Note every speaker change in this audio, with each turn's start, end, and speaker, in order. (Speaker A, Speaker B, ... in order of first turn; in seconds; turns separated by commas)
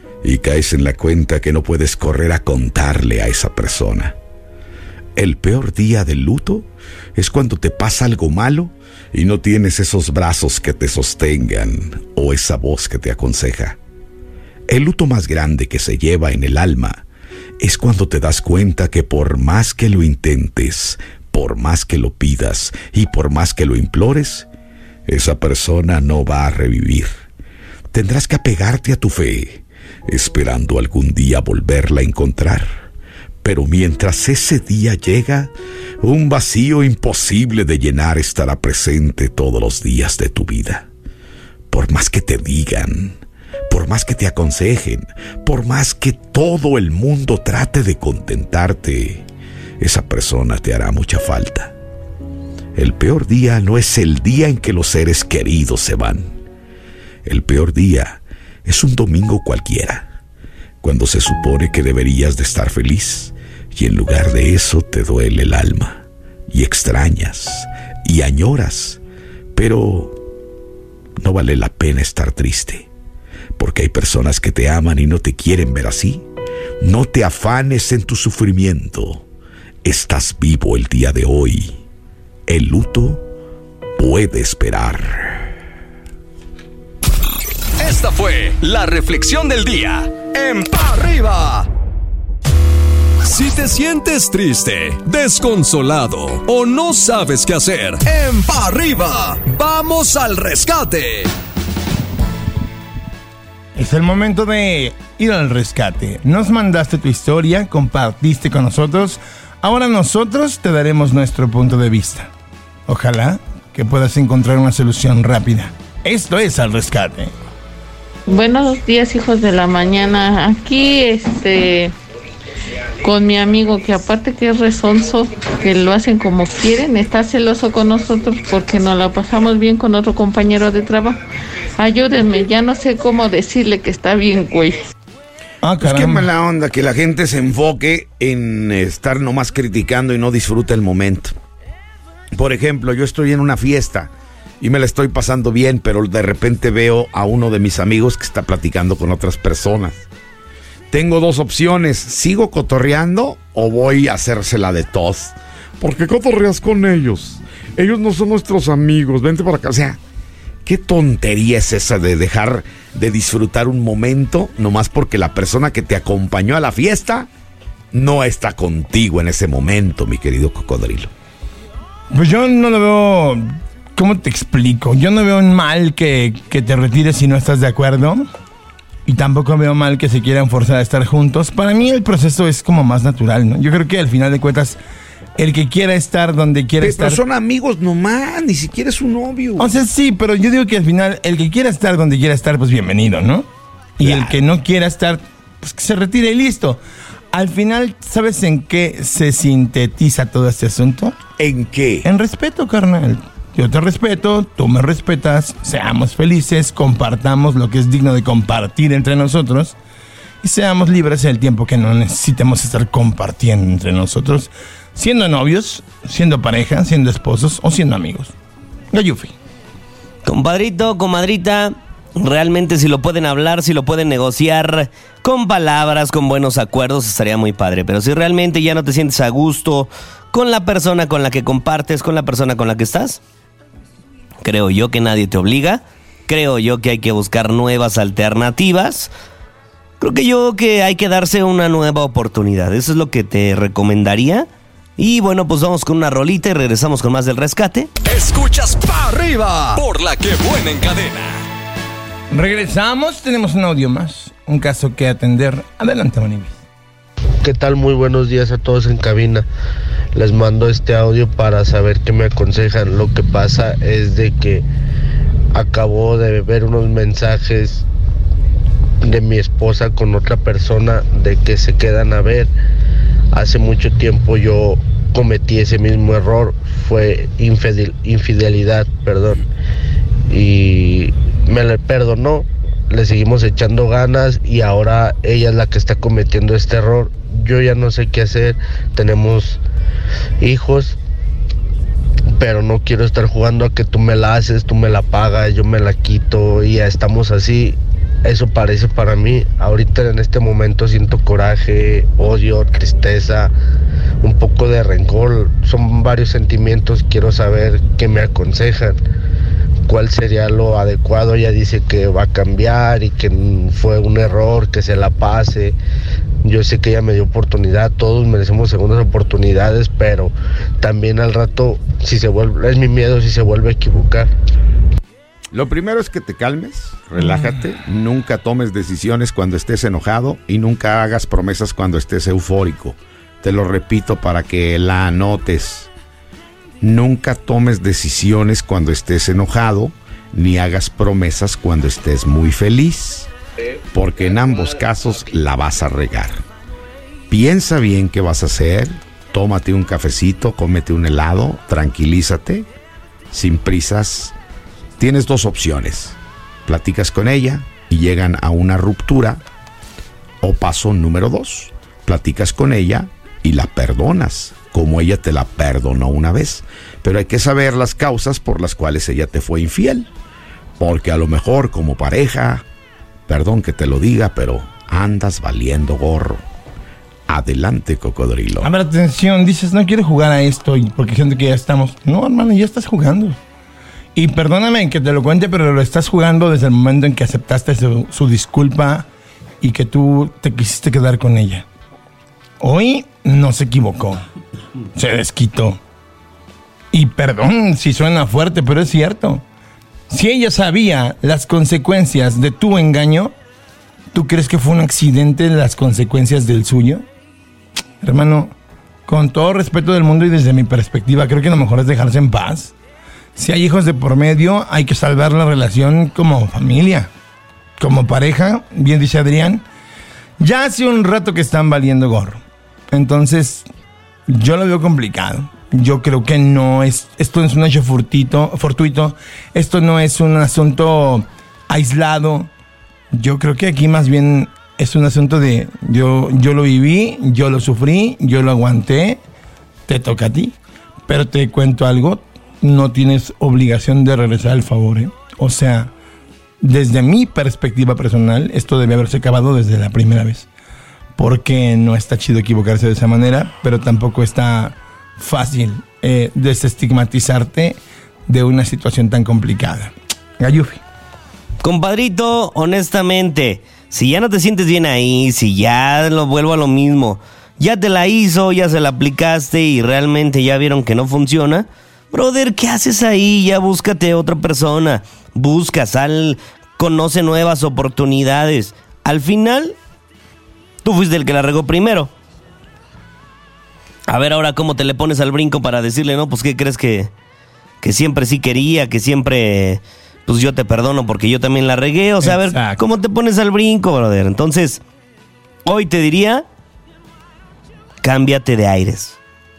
Speaker A: 0.2-4.1, Speaker A: 5.2-13.8, Speaker A: 14.7-17.0, Speaker A: 17.6-24.5, Speaker A: 25.1-27.1, Speaker A: 27.9-32.8, Speaker A: 33.4-40.9, Speaker A: 41.7-43.2, Speaker A: 43.7-49.2, Speaker A: 49.8-51.7, Speaker A: 52.8-56.3, Speaker A: 57.2-60.1, Speaker A: 60.8-69.0, Speaker A: 69.5-70.2, Speaker A: 71.2-72.9, Speaker A: 73.6-76.2, Speaker A: 76.8-79.2, Speaker A: 79.8-81.8, Speaker A: 82.5-83.2, Speaker A: 84.0-85.5, Speaker B: 87.8-91.7, Speaker B: 93.2-101.3, Speaker C: 103.8-112.3, Speaker C: 112.9-117.3, Speaker D: 118.3-121.9, Speaker D: 123.0-131.2, Speaker D: 131.8-134.9, Speaker C: 135.6-136.3, Speaker A: 135.8-141.3, Speaker A: 142.3-150.0, Speaker A: 150.9-160.0, Speaker A: 160.6-167.3, Speaker A: 167.9-171.1, Speaker C: 172.1-178.3, Speaker C: 179.1-184.8, Speaker C: 185.4-187.2, Speaker A: 186.8-189.7, Speaker C: 189.6-193.5, Speaker C: 194.0-196.8, Speaker A: 194.0-194.4, Speaker C: 197.3-201.1, Speaker A: 201.4-202.1, Speaker C: 202.0-209.7, Speaker C: 210.4-218.3, Speaker C: 218.9-219.3, Speaker E: 220.2-233.2, Speaker E: 234.4-239.1, Speaker E: 240.0-247.9, Speaker B: 248.1-251.4, Speaker C: 252.3-256.6, Speaker F: 257.4-259.4, Speaker F: 260.1-264.6, Speaker F: 265.5-267.8, Speaker F: 269.0-272.5, Speaker F: 273.3-279.4, Speaker F: 280.3-289.6, Speaker F: 290.4-291.0, Speaker F: 292.4-303.5, Speaker F: 304.2-309.0, Speaker F: 309.9-315.8, Speaker F: 316.4-324.3, Speaker A: 325.5-335.9, Speaker A: 336.8-343.3, Speaker A: 343.9-346.4, Speaker A: 347.3-352.7, Speaker A: 353.3-354.3, Speaker A: 355.0-359.4, Speaker A: 360.4-370.1, Speaker A: 370.8-372.6, Speaker A: 373.3-376.4, Speaker A: 377.3-378.7, Speaker C: 378.6-383.4, Speaker C: 384.1-389.1, Speaker C: 389.6-391.6, Speaker C: 392.6-394.2, Speaker C: 394.9-395.8, Speaker C: 396.9-399.4, Speaker C: 400.1-403.3, Speaker C: 404.1-407.0, Speaker C: 408.0-408.5, Speaker C: 409.1-412.7, Speaker C: 413.4-417.1, Speaker C: 417.8-419.6, Speaker C: 420.4-422.4, Speaker C: 422.9-423.6, Speaker C: 424.3-432.5, Speaker C: 433.1-439.2, Speaker C: 439.9-440.5, Speaker C: 441.1-445.9, Speaker C: 446.6-450.4, Speaker C: 451.2-460.8, Speaker E: 461.6-479.8, Speaker E: 480.8-482.1, Speaker E: 484.1-487.1, Speaker E: 487.8-494.8, Speaker C: 492.2-492.8, Speaker E: 495.6-496.4, Speaker E: 498.0-499.1